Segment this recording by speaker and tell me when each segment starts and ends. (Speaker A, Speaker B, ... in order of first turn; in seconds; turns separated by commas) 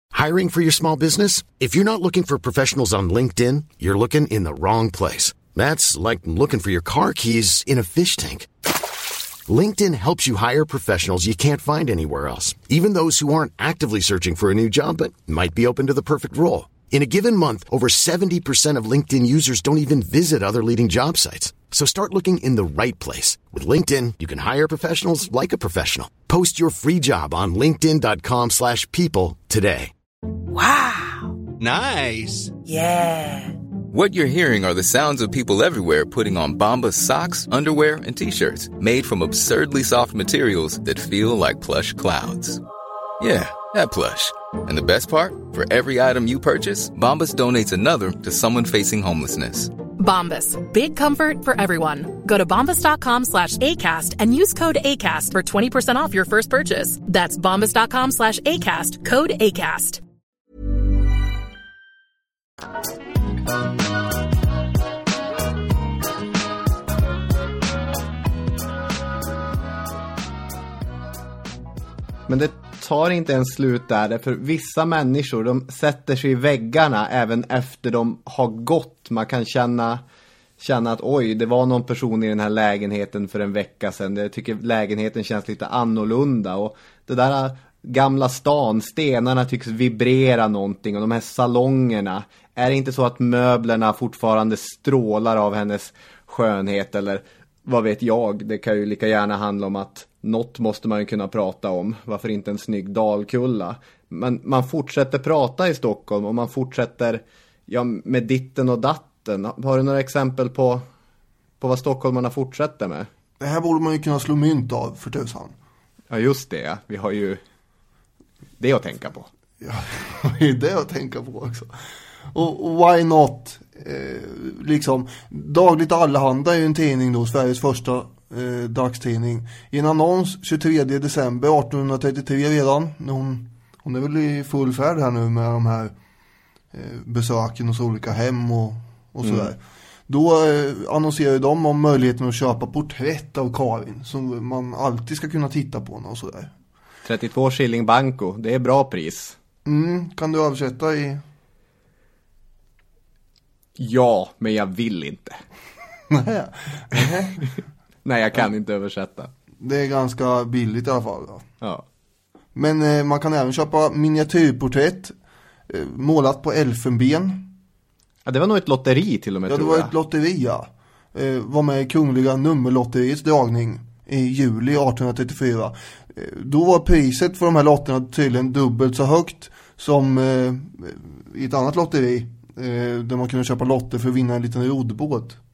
Speaker A: 0.1-8.5, Speaker A: 9.5-29.9, Speaker B: 33.9-42.6, Speaker B: 43.2-49.7, Speaker C: 50.0-60.0, Speaker D: 72.3-80.0, Speaker D: 80.6-110.8, Speaker D: 111.6-113.1, Speaker E: 113.4-115.5, Speaker D: 116.1-117.4, Speaker D: 118.6-119.3, Speaker E: 119.6-121.7, Speaker E: 122.3-135.9, Speaker E: 136.7-146.5, Speaker D: 139.2-139.5, Speaker D: 147.1-149.4, Speaker E: 149.7-151.2, Speaker D: 153.8-155.4, Speaker E: 156.1-157.5, Speaker D: 158.1-159.3, Speaker E: 159.6-161.5, Speaker E: 162.6-165.1, Speaker E: 165.7-167.5, Speaker D: 168.3-169.9, Speaker E: 169.5-185.4